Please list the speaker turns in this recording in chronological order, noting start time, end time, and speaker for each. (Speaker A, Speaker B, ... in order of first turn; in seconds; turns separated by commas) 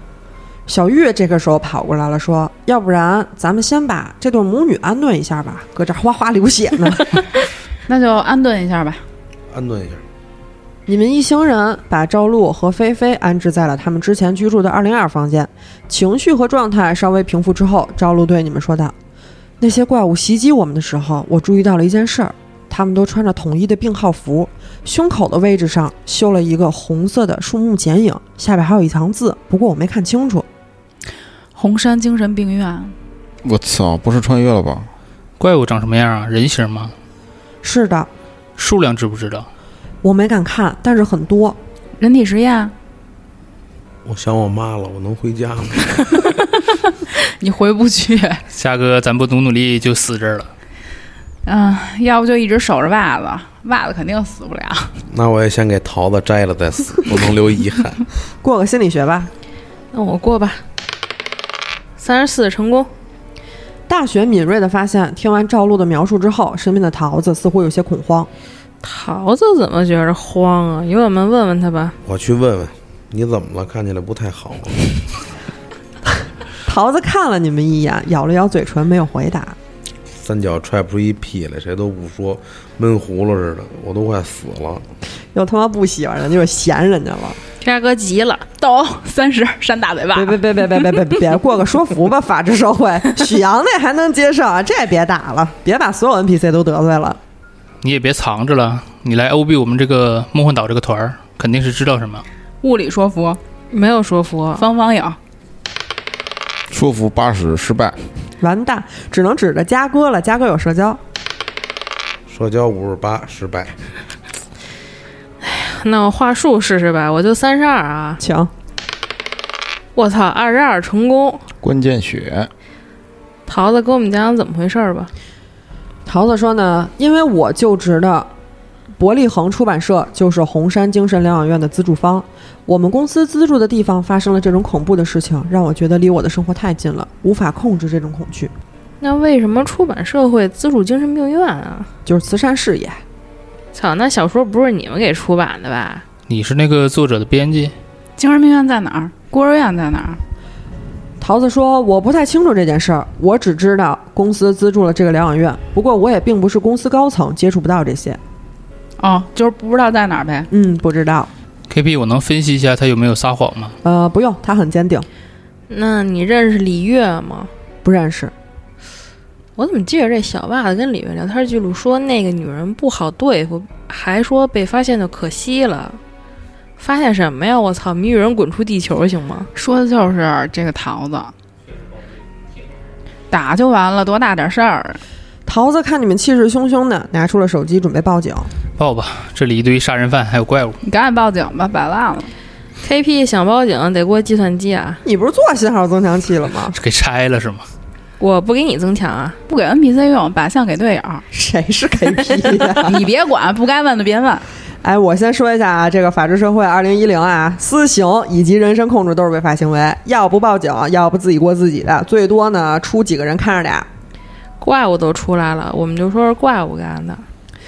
Speaker A: 0.7-7.3, Speaker B: 7.9-9.0, Speaker C: 9.5-10.0, Speaker A: 10.9-18.9, Speaker A: 19.6-30.4, Speaker B: 31.6-32.9, Speaker D: 33.4-34.9, Speaker E: 35.4-36.9, Speaker A: 37.6-38.1, Speaker E: 38.6-39.5, Speaker A: 40.0-41.6, Speaker B: 42.0-42.7, Speaker C: 44.0-46.3, Speaker B: 47.1-48.4, Speaker E: 48.5-50.5, Speaker B: 51.4-55.0, Speaker C: 55.1-58.0, Speaker A: 58.4-59.3, Speaker F: 59.9-60.6, Speaker F: 62.0-62.9, Speaker A: 63.9-68.3, Speaker F: 68.8-72.0, Speaker C: 72.0-74.9, Speaker A: 76.7-79.5, Speaker C: 80.1-84.8, Speaker A: 85.3-87.4, Speaker F: 87.6-88.5, Speaker B: 88.6-91.0, Speaker A: 90.1-97.2, Speaker E: 97.8-102.2, Speaker B: 102.6-103.4, Speaker F: 103.7-104.6, Speaker B: 104.5-105.2, Speaker D: 106.7-108.0, Speaker A: 108.4-111.0, Speaker C: 112.3-113.8, Speaker F: 115.4-118.2, Speaker A: 118.2-118.5, Speaker F: 120.0-121.5, Speaker D: 121.6-122.5, Speaker F: 123.5-125.1, Speaker A: 126.0-128.3, Speaker A: 129.0-138.5, Speaker F: 139.0-141.9, Speaker A: 142.1-143.0, Speaker F: 143.7-146.0, Speaker E: 146.3-147.7, Speaker B: 148.2-150.2, Speaker A: 151.2-158.2, Speaker B: 159.0-160.5, Speaker A: 160.5-161.3, Speaker E: 161.7-163.8, Speaker A: 163.8-165.1, Speaker F: 165.7-167.5, Speaker A: 167.8-168.3, Speaker F: 169.6-176.0, Speaker F: 176.8-179.5, Speaker B: 179.5-181.3, Speaker B: 183.3-185.0, Speaker A: 185.5-188.5, Speaker E: 188.8-190.8, Speaker B: 190.8-192.3, Speaker F: 192.8-195.0, Speaker A: 195.0-196.8, Speaker E: 196.7-197.6, Speaker F: 198.2-199.4, Speaker B: 199.5-201.2, Speaker A: 201.3-203.0, Speaker B: 202.7-204.5, Speaker A: 204.8-213.9, Speaker F: 214.6-217.2